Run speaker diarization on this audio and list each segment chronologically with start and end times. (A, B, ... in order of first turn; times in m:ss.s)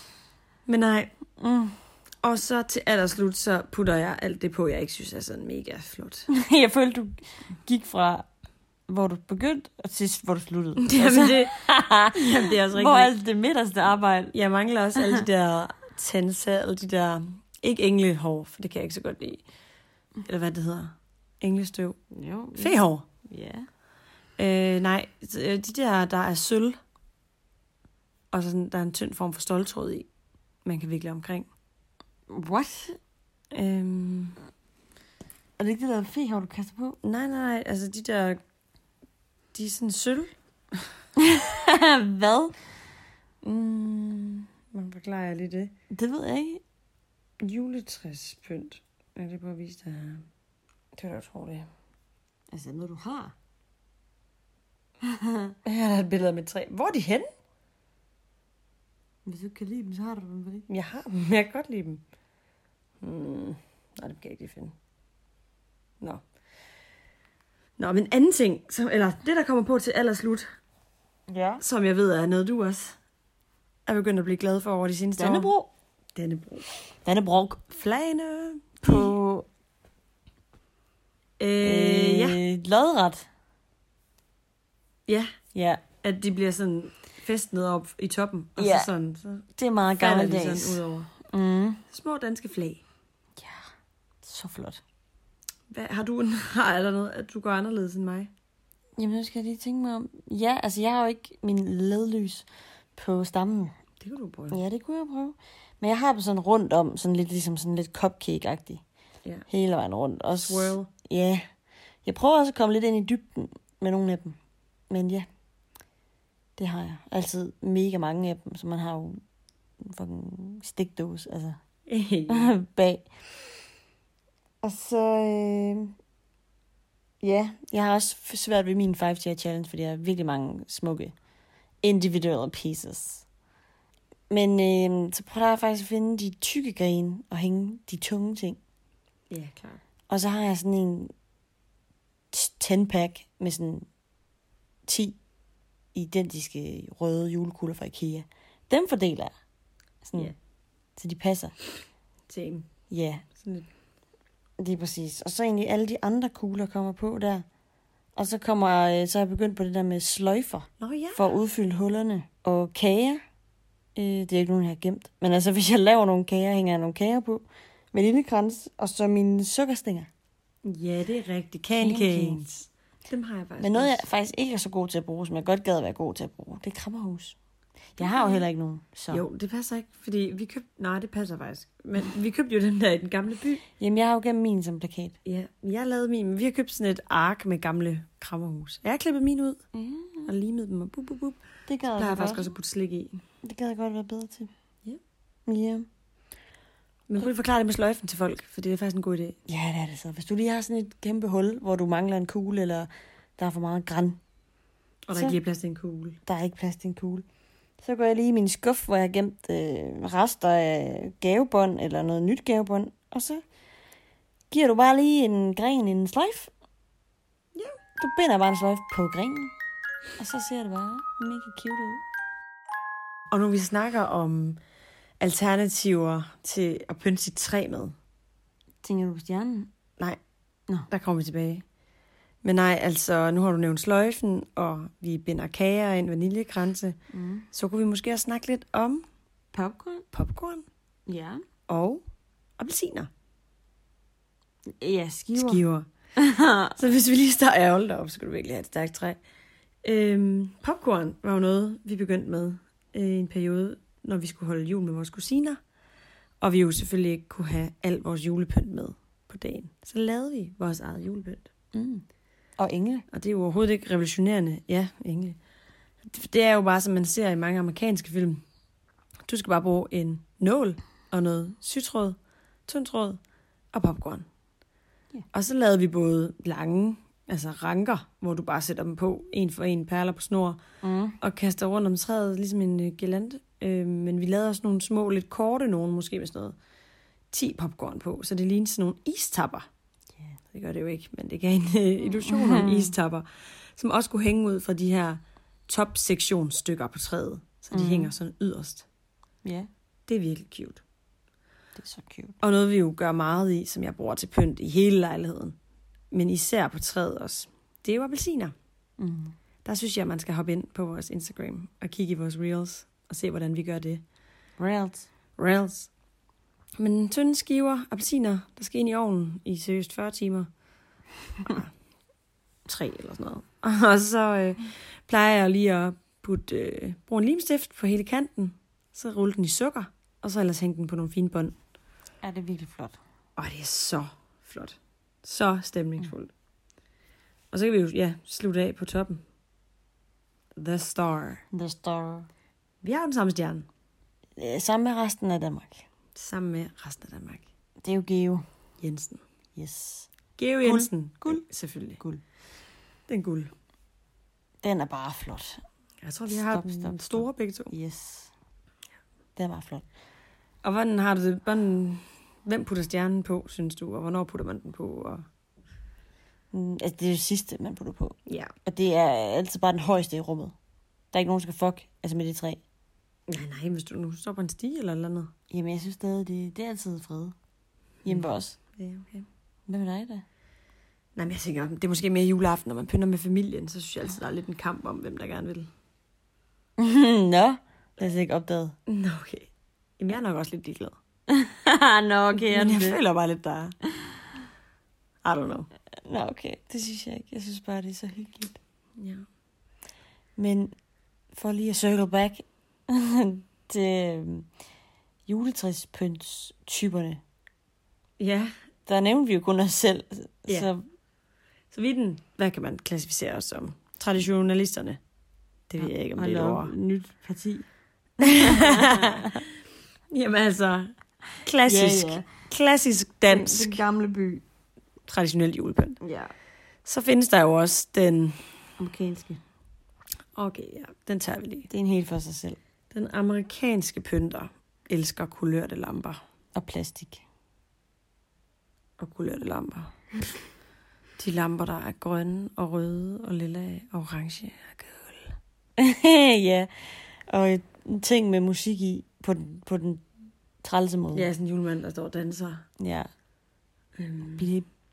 0:00.7-0:01.1 A
0:01.4-0:01.8 B
0:02.2-0:06.3 A
0:06.3-0:08.2 B
0:08.9-0:14.4 B
0:10.8-0:11.6 A
0:12.1-0:13.1 A
0:14.3-0:19.4 A
0:15.0-0:15.2 B
0:20.2-0:22.0 A
0:22.1-0:23.7 B
0:22.6-0:23.1 A
0:24.4-0:26.8 A
0:28.3-0:30.1 A
0:30.6-0:31.5 A
0:32.3-0:33.0 B
0:33.5-0:34.4 A
0:35.6-0:37.0 B
0:37.0-0:38.4 A
0:39.5-0:40.3 A
0:41.2-0:42.6 B
0:43.4-0:45.7 A
0:45.9-0:46.6 B
0:47.4-0:50.2 A
0:51.0-0:51.7 A
0:52.5-0:53.4 B
0:55.0-0:55.6 B
0:55.6-0:57.3 A
0:59.2-1:00.7 B
1:00.7-1:02.0 A
1:03.0-1:04.7 A
1:07.8-1:10.4 A
1:11.3-1:11.6 B
1:11.6-1:13.0 A
1:13.9-1:15.5 A
1:15.2-1:15.7 B
1:16.1-1:16.7 A
1:17.0-1:17.7 B
1:17.7-1:19.1 A
1:18.8-1:19.5 B
1:21.4-1:22.4 A
1:21.6-1:23.3 B
1:25.1-1:25.3 A
1:25.5-1:25.8 B
1:26.0-1:31.1 A
1:28.6-1:28.9 B
1:29.6-1:31.8 B
1:31.9-1:32.8 A
1:33.4-1:33.6 B
1:34.2-1:34.8 B
1:35.7-1:38.3 A
1:39.0-1:43.7 B
1:44.0-1:44.6 A
1:44.5-1:48.8 B
1:49.5-1:51.4 B
1:50.4-1:50.9 A
1:52.0-1:54.4 B
1:54.9-1:55.3 B
1:56.6-1:59.2 B
1:59.8-2:01.6 B
2:01.9-2:02.5 A
2:02.3-2:03.1 B
2:04.6-2:05.9 B
2:07.2-2:11.1 B
2:11.8-2:13.2 B
2:14.3-2:18.6 B
2:19.3-2:19.8 A
2:20.1-2:21.1 B
2:22.3-2:23.9 B
2:24.9-2:25.2 B
2:25.9-2:29.3 B
2:30.0-2:30.3 B
2:31.0-2:31.5 B
2:32.3-2:32.7 A
2:32.9-2:33.2 B
2:33.4-2:33.7 A
2:34.6-2:37.4 B
2:38.2-2:43.2 B
2:40.8-2:41.3 A
2:43.9-2:50.1 B
2:50.6-2:54.0 A
2:51.8-2:52.4 B
2:53.6-2:57.4 B
2:58.0-2:59.2 B
2:58.0-2:58.4 A
2:59.1-3:03.6 A
3:03.8-3:05.2 B
3:05.2-3:09.7 A
3:09.7-3:10.3 B
3:10.2-3:11.4 A
3:11.7-3:12.5 B
3:12.0-3:13.2 A
3:13.4-3:14.5 B
3:15.4-3:15.9 B
3:17.1-3:19.4 A
3:19.5-3:24.2 B
3:25.1-3:26.2 A
3:26.2-3:27.2 B
3:27.8-3:33.4 B
3:34.5-3:36.5 B
3:38.0-3:39.6 B
3:40.2-3:42.0 B
3:43.3-3:44.6 A
3:45.2-3:47.9 A
3:48.8-3:49.7 B
3:50.9-3:51.6 A
3:52.4-3:57.0 A
3:57.1-3:57.5 B
3:57.5-3:59.0 A
3:59.5-4:00.1 B
4:00.1-4:00.6 A
4:01.1-4:01.4 B
4:01.7-4:02.0 A
4:02.6-4:03.1 A
4:04.7-4:05.6 B
4:05.4-4:05.9 A
4:06.2-4:06.8 B
4:06.8-4:09.2 A
4:09.8-4:15.6 A
4:16.4-4:21.5 A
4:21.7-4:22.0 B
4:22.6-4:23.1 B
4:23.1-4:25.4 A
4:26.1-4:28.4 A
4:29.3-4:32.2 A
4:32.7-4:33.2 A
4:33.7-4:34.2 A
4:35.3-4:40.6 A
4:40.8-4:41.2 B
4:41.2-4:46.6 A
4:47.3-4:49.7 A
4:50.5-4:53.2 A
4:52.2-4:52.9 B
4:53.8-4:58.9 A
4:57.7-4:58.1 B
4:59.4-4:59.7 B
5:00.1-5:00.8 A
5:01.8-5:02.4 B
5:02.4-5:05.6 A
5:06.1-5:08.5 A
5:09.0-5:09.4 B
5:09.6-5:14.0 A
5:14.6-5:15.1 B
5:15.4-5:15.9 A
5:16.8-5:20.5 A
5:21.4-5:21.7 A
5:22.7-5:23.1 B
5:23.0-5:31.6 A
5:32.2-5:33.0 B
5:33.4-5:36.3 A
5:37.5-5:39.2 A
5:40.6-5:41.4 A
5:41.5-5:42.3 B
5:42.8-5:43.6 A
5:44.4-5:45.9 B
5:46.1-5:47.5 A
5:47.8-5:48.4 B
5:48.8-5:49.2 A
5:49.6-5:50.1 B
5:50.4-5:52.0 A
5:50.6-5:51.4 B
5:53.1-5:53.5 A
5:54.6-5:55.6 B
5:56.0-5:57.7 A
5:56.3-5:58.3 B
5:59.4-5:59.9 B
6:00.6-6:05.2 A
6:06.5-6:10.6 B
6:08.3-6:08.5 A
6:11.1-6:12.6 B
6:13.3-6:15.3 A
6:15.5-6:17.4 B
6:18.0-6:18.6 B
6:18.8-6:19.2 A
6:19.7-6:20.2 B
6:21.2-6:25.7 A
6:26.8-6:28.8 B
6:28.9-6:31.0 A
6:31.3-6:33.0 B
6:32.3-6:33.8 A
6:35.2-6:35.7 A
6:36.0-6:38.6 B
6:39.0-6:39.2 A
6:40.4-6:40.7 B
6:41.3-6:44.5 B
6:45.3-6:47.2 B
6:48.2-6:48.5 A
6:48.9-6:50.8 B
6:51.7-6:55.0 A
6:55.7-6:56.7 A
6:55.8-6:57.6 B
6:58.2-6:59.4 B
6:58.2-6:59.4 A
7:00.1-7:03.8 A
7:01.6-7:02.2 B
7:03.3-7:04.4 B
7:05.1-7:06.0 A
7:06.0-7:06.3 B
7:06.8-7:08.4 A
7:08.8-7:09.4 B
7:10.4-7:11.7 A
7:11.7-7:12.6 B
7:12.9-7:16.2 A
7:16.6-7:17.2 B
7:19.0-7:20.0 A
7:21.2-7:25.4 A
7:25.8-7:30.0 B
7:30.6-7:31.3 B
7:31.1-7:32.6 A
7:32.8-7:33.1 B
7:34.0-7:34.5 A
7:34.4-7:34.7 B